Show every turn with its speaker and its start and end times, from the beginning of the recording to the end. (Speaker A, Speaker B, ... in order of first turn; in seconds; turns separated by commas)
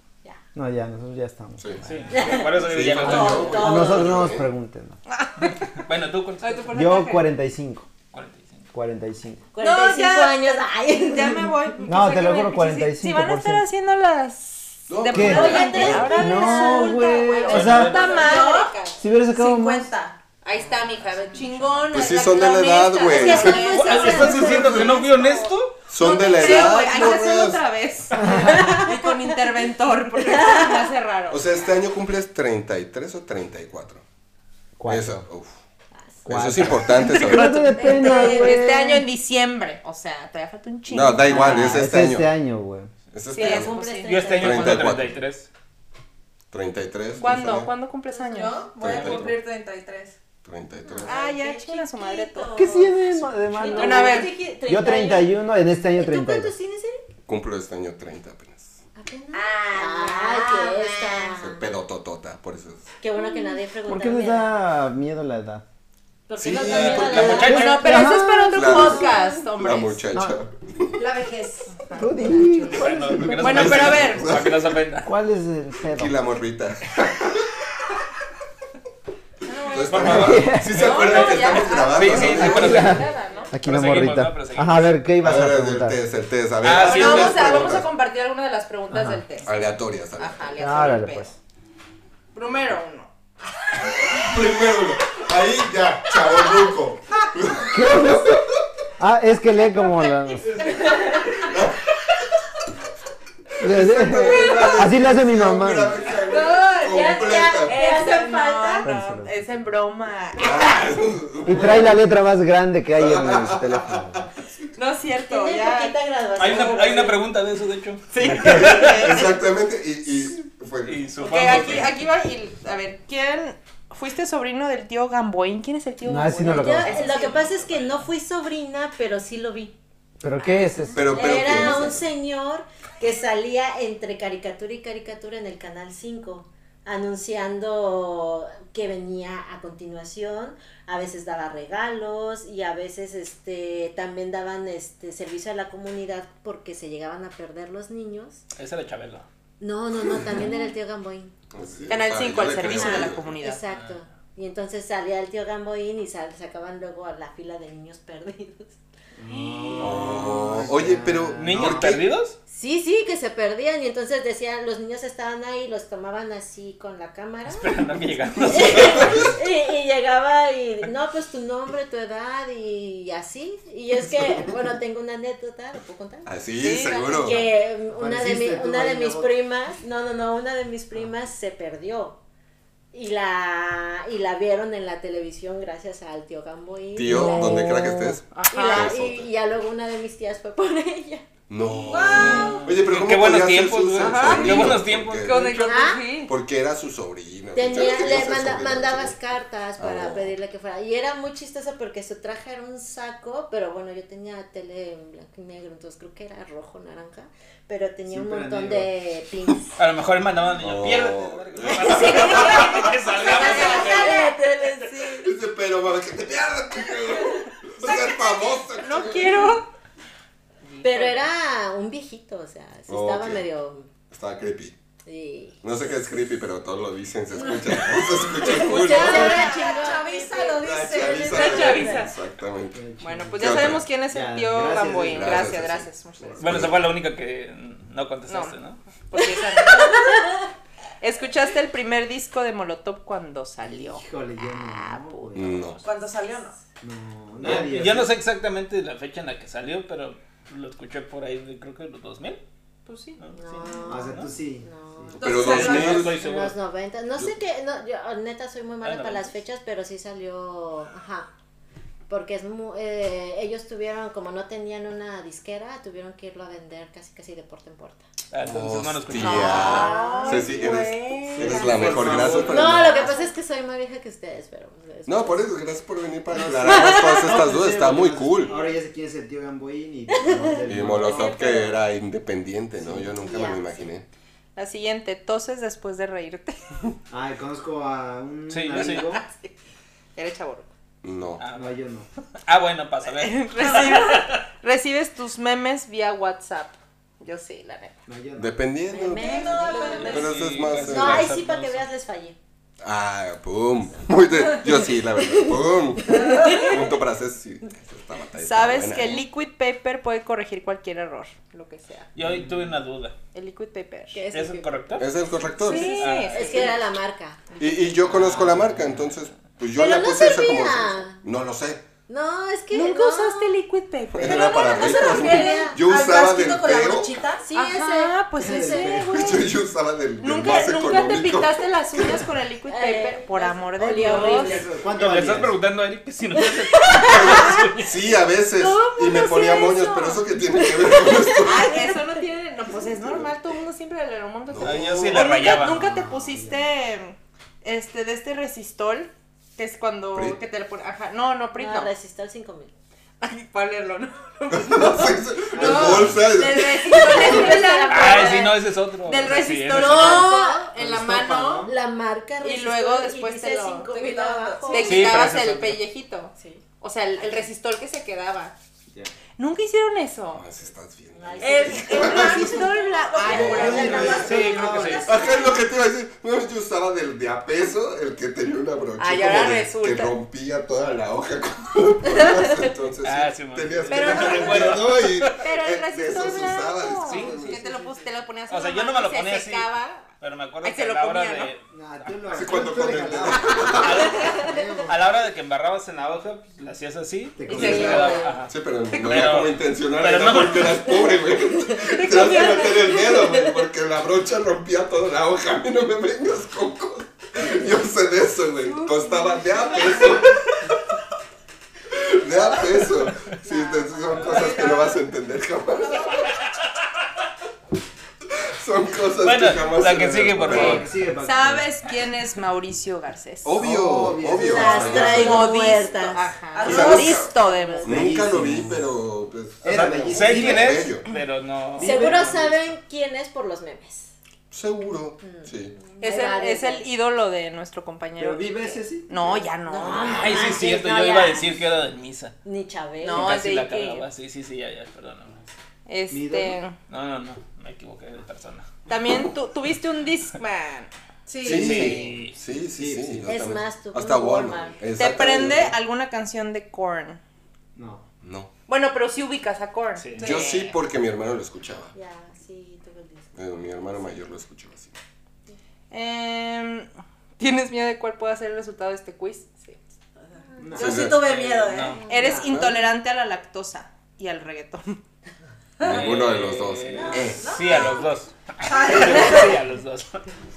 Speaker A: 0.5-1.6, Speaker B: 1.6-4.5, Speaker C: 1.8-3.8, Speaker D: 2.1-4.3, Speaker A: 3.0-5.0, Speaker E: 5.1-5.7, Speaker C: 5.4-6.7, Speaker E: 6.4-7.3, Speaker A: 6.7-7.9, Speaker C: 8.1-8.7, Speaker A: 8.7-9.4, Speaker D: 9.5-11.5, Speaker E: 9.6-19.0, Speaker A: 11.8-13.7, Speaker B: 14.9-16.2, Speaker A: 15.1-18.0, Speaker D: 15.2-17.8, Speaker C: 17.5-18.4, Speaker F: 17.7-20.2, Speaker A: 19.0-19.9, Speaker E: 20.4-25.2, Speaker B: 21.9-24.8, Speaker D: 23.1-25.5, Speaker C: 23.7-25.8, Speaker B: 25.9-27.6, Speaker E: 26.0-31.5, Speaker A: 28.1-28.8, Speaker D: 28.2-29.1, Speaker D: 30.2-30.9, Speaker B: 31.3-34.0, Speaker A: 34.8-35.2, Speaker B: 34.9-35.6, Speaker D: 36.0-36.3, Speaker B: 36.2-37.9, Speaker A: 36.2-39.0, Speaker E: 37.0-41.8, Speaker F: 38.0-38.5, Speaker B: 40.9-42.3, Speaker A: 41.3-42.9, Speaker B: 43.1-45.1, Speaker E: 43.3-44.5, Speaker D: 43.4-44.9, Speaker C: 44.0-45.5, Speaker B: 46.5-47.7, Speaker E: 47.2-48.6, Speaker F: 48.2-50.2, Speaker B: 48.8-49.4, Speaker C: 48.8-49.3, Speaker B: 50.4-51.2, Speaker D: 50.8-55.3, Speaker E: 51.0-52.7, Speaker A: 52.5-56.5, Speaker E: 53.7-54.4, Speaker D: 56.1-56.4, Speaker B: 57.3-58.8, Speaker D: 59.0-61.6, Speaker E: 59.3-61.4, Speaker B: 61.3-62.9, Speaker D: 63.0-64.6, Speaker A: 63.8-65.6, Speaker D: 66.3-67.9, Speaker B: 66.4-67.6, Speaker C: 66.6-68.1, Speaker A: 67.4-69.2, Speaker E: 67.4-70.0, Speaker B: 68.5-71.0, Speaker A: 70.1-70.4, Speaker F: 71.0-72.1, Speaker E: 71.7-72.0, Speaker A: 71.9-73.8, Speaker C: 72.7-75.1, Speaker B: 73.2-74.7, Speaker E: 73.4-74.3, Speaker A: 75.0-76.1, Speaker B: 75.9-77.5, Speaker E: 79.5-80.2, Speaker B: 79.7-83.0, Speaker C: 79.9-85.0, Speaker A: 80.0-80.8, Speaker E: 80.7-83.5, Speaker A: 82.2-86.0, Speaker B: 85.2-87.9, Speaker C: 86.6-87.8, Speaker E: 86.8-89.5, Speaker A: 88.9-89.2, Speaker B: 89.4-90.8, Speaker E: 90.2-91.3, Speaker A: 90.6-91.3, Speaker E: 92.3-93.1, Speaker B: 93.8-98.6, Speaker A: 97.7-98.4, Speaker A: 99.0-100.8, Speaker D: 100.7-101.3, Speaker B: 101.1-101.8, Speaker A: 103.6-106.1, Speaker B: 103.6-107.8, Speaker E: 106.3-110.9, Speaker D: 106.8-108.9, Speaker A: 108.8-109.3, Speaker B: 110.4-112.0, Speaker A: 111.4-114.3, Speaker B: 113.0-114.7, Speaker E: 114.7-116.0, Speaker D: 115.3-117.2, Speaker C: 116.4-119.2, Speaker E: 118.1-119.4, Speaker A: 118.2-118.7, Speaker B: 118.4-121.8, Speaker C: 120.9-122.0, Speaker E: 121.2-127.4, Speaker A: 126.0-127.1, Speaker D: 126.4-129.8, Speaker A: 130.2-131.2, Speaker D: 130.4-148.4, Speaker B: 130.9-132.1, Speaker C: 148.6-149.3, Speaker D: 149.6-151.4, Speaker B: 151.5-153.4, Speaker E: 151.9-153.6, Speaker D: 152.7-158.8, Speaker C: 153.7-154.0, Speaker A: 159.2-162.0, Speaker B: 159.8-162.1, Speaker C: 161.4-162.4, Speaker D: 162.5-167.9, Speaker C: 167.5-169.3, Speaker D: 168.5-182.2, Speaker B: 168.9-169.2, Speaker B: 176.2-177.5, Speaker E: 176.6-177.4, Speaker A: 177.9-179.3, Speaker D: 182.9-191.3, Speaker B: 186.9-189.3, Speaker A: 187.4-187.9, Speaker E: 188.3-189.0, Speaker B: 191.5-199.2, Speaker F: 191.8-192.8, Speaker C: 192.1-195.7, Speaker E: 192.3-192.6, Speaker E: 193.9-196.3, Speaker D: 195.6-196.1, Speaker D: 197.5-209.8, Speaker B: 199.8-200.3, Speaker A: 208.1-208.9, Speaker C: 209.8-214.3, Speaker B: 210.6-212.9, Speaker D: 211.8-215.3, Speaker E: 211.9-215.1, Speaker B: 215.1-219.6, Speaker E: 218.7-219.7, Speaker E: 220.6-221.2, Speaker D: 220.8-223.9, Speaker B: 222.9-223.5, Speaker B: 224.1-224.7, Speaker D: 225.1-225.6, Speaker B: 225.6-229.5, Speaker D: 228.4-230.6, Speaker E: 228.5-230.0, Speaker F: 228.8-232.0, Speaker B: 230.5-232.8, Speaker E: 231.0-232.1, Speaker D: 231.2-232.0, Speaker A: 232.7-235.6, Speaker E: 233.0-236.5, Speaker B: 233.3-233.9, Speaker B: 235.1-235.9, Speaker A: 236.2-236.7, Speaker B: 236.4-236.7, Speaker C: 236.4-238.8, Speaker E: 238.3-240.2, Speaker D: 239.8-240.2, Speaker E: 241.0-245.8, Speaker A: 243.6-245.7, Speaker B: 245.3-245.8, Speaker F: 245.8-246.6, Speaker A: 246.8-248.2, Speaker C: 247.4-252.4, Speaker E: 252.8-253.2, Speaker C: 253.2-254.3, Speaker D: 253.3-261.3, Speaker A: 253.8-255.2, Speaker B: 255.2-256.2, Speaker F: 255.2-256.1, Speaker C: 255.3-256.6, Speaker C: 258.8-259.3, Speaker D: 262.1-268.0, Speaker C: 268.3-269.9, Speaker B: 268.4-273.0, Speaker E: 269.2-273.3, Speaker D: 269.4-270.6, Speaker F: 269.9-270.4, Speaker A: 271.3-272.9, Speaker D: 272.4-275.6, Speaker B: 275.1-278.5, Speaker A: 276.4-281.4, Speaker D: 276.6-277.0, Speaker D: 280.2-281.8, Speaker B: 280.6-284.1, Speaker D: 282.9-283.9, Speaker E: 284.6-286.6, Speaker A: 287.1-289.2, Speaker C: 288.5-289.1, Speaker E: 288.7-289.5, Speaker E: 290.1-290.7, Speaker B: 291.0-291.4, Speaker C: 291.4-291.8, Speaker A: 291.5-292.1, Speaker C: 292.4-294.4, Speaker E: 293.0-297.9, Speaker A: 298.1-298.6, Speaker B: 298.4-301.4, Speaker D: 298.9-300.3, Speaker F: 299.1-300.6, Speaker E: 299.2-300.3, Speaker C: 300.1-301.9, Speaker D: 300.9-302.4, Speaker B: 302.8-309.2, Speaker D: 306.1-306.8, Speaker E: 308.4-312.1, Speaker C: 312.1-313.1, Speaker A: 312.2-312.6, Speaker E: 313.3-314.8, Speaker C: 314.3-315.1, Speaker B: 314.9-316.1, Speaker E: 315.5-316.8, Speaker C: 315.8-316.8, Speaker D: 316.0-317.6, Speaker B: 317.6-321.9, Speaker C: 318.1-319.1, Speaker D: 319.7-321.2, Speaker D: 322.1-323.6, Speaker E: 322.7-325.3, Speaker B: 324.1-327.2, Speaker F: 324.2-327.4, Speaker D: 324.2-325.8, Speaker D: 327.4-329.0, Speaker E: 327.5-329.5, Speaker A: 328.4-329.2, Speaker B: 329.1-332.2, Speaker E: 330.2-334.6, Speaker D: 332.7-334.7, Speaker A: 333.8-335.6, Speaker C: 334.9-338.0, Speaker D: 336.4-337.6, Speaker B: 337.0-341.8, Speaker E: 338.6-340.2, Speaker D: 340.9-342.0, Speaker E: 341.4-351.9, Speaker B: 342.8-343.3, Speaker B: 344.5-345.0, Speaker C: 344.6-345.8, Speaker A: 345.4-346.7, Speaker B: 350.1-350.4, Speaker D: 351.5-352.7, Speaker E: 353.2-358.5, Speaker B: 354.5-357.6, Speaker A: 355.5-356.2, Speaker D: 356.8-358.6, Speaker C: 357.9-360.3, Speaker E: 359.0-361.7, Speaker D: 359.7-360.7, Speaker A: 360.8-361.7, Speaker D: 361.6-365.1, Speaker E: 362.4-363.9, Speaker F: 363.9-365.1, Speaker E: 364.6-368.6, Speaker C: 364.8-365.8, Speaker E: 369.4-370.4, Speaker B: 370.3-372.7, Speaker D: 371.2-374.4, Speaker F: 371.3-375.6, Speaker E: 371.4-374.4, Speaker B: 373.3-374.1, Speaker A: 373.3-375.1, Speaker C: 373.8-375.2, Speaker B: 375.0-387.6, Speaker E: 379.0-380.1, Speaker C: 383.0-385.4, Speaker E: 383.9-390.1, Speaker C: 387.0-387.3, Speaker A: 387.3-388.0, Speaker C: 388.5-400.9, Speaker E: 390.6-391.5, Speaker A: 391.7-395.1, Speaker B: 392.3-394.3, Speaker D: 394.2-394.5, Speaker A: 397.4-398.3, Speaker E: 397.5-398.3, Speaker D: 397.5-398.3, Speaker B: 397.6-410.4, Speaker D: 401.6-403.5, Speaker E: 402.1-402.7, Speaker F: 408.9-410.2, Speaker B: 411.9-416.3, Speaker F: 414.5-414.8, Speaker F: 415.8-416.3, Speaker C: 416.2-416.5, Speaker B: 418.4-420.8, Speaker C: 419.2-420.9, Speaker A: 420.4-421.7, Speaker E: 420.5-423.5, Speaker B: 423.4-427.3, Speaker A: 423.6-425.4, Speaker D: 424.4-428.0, Speaker E: 424.9-427.9, Speaker F: 426.5-427.3, Speaker B: 427.8-431.1, Speaker A: 427.8-428.9, Speaker A: 429.6-430.9, Speaker C: 429.6-432.4, Speaker A: 431.8-432.6, Speaker D: 431.8-434.1, Speaker B: 434.5-435.8, Speaker D: 435.2-436.9, Speaker E: 436.0-440.2, Speaker A: 438.2-439.1, Speaker D: 439.6-441.7, Speaker B: 439.8-440.5, Speaker C: 440.0-442.3, Speaker D: 442.4-443.3, Speaker E: 443.0-444.1, Speaker C: 443.1-445.4, Speaker E: 445.9-446.8, Speaker A: 446.1-446.6, Speaker C: 446.9-448.7, Speaker E: 448.9-450.9, Speaker F: 451.2-451.7, Speaker C: 451.4-452.4, Speaker B: 451.4-455.8, Speaker A: 451.7-453.3, Speaker E: 451.7-452.1, Speaker D: 453.3-455.0, Speaker E: 454.9-457.2, Speaker A: 457.7-458.0, Speaker B: 458.2-458.5, Speaker E: 458.7-460.7, Speaker C: 460.0-460.3, Speaker B: 460.2-461.9, Speaker F: 460.2-460.6, Speaker D: 461.9-463.4, Speaker B: 463.3-464.9, Speaker E: 465.9-469.8, Speaker F: 470.2-472.3, Speaker A: 470.6-471.1, Speaker B: 470.8-471.2, Speaker C: 471.1-472.0, Speaker E: 472.0-475.0, Speaker A: 472.2-472.6, Speaker B: 472.3-472.8, Speaker F: 475.8-476.1, Speaker C: 475.8-480.3, Speaker B: 475.9-477.5, Speaker F: 476.9-479.6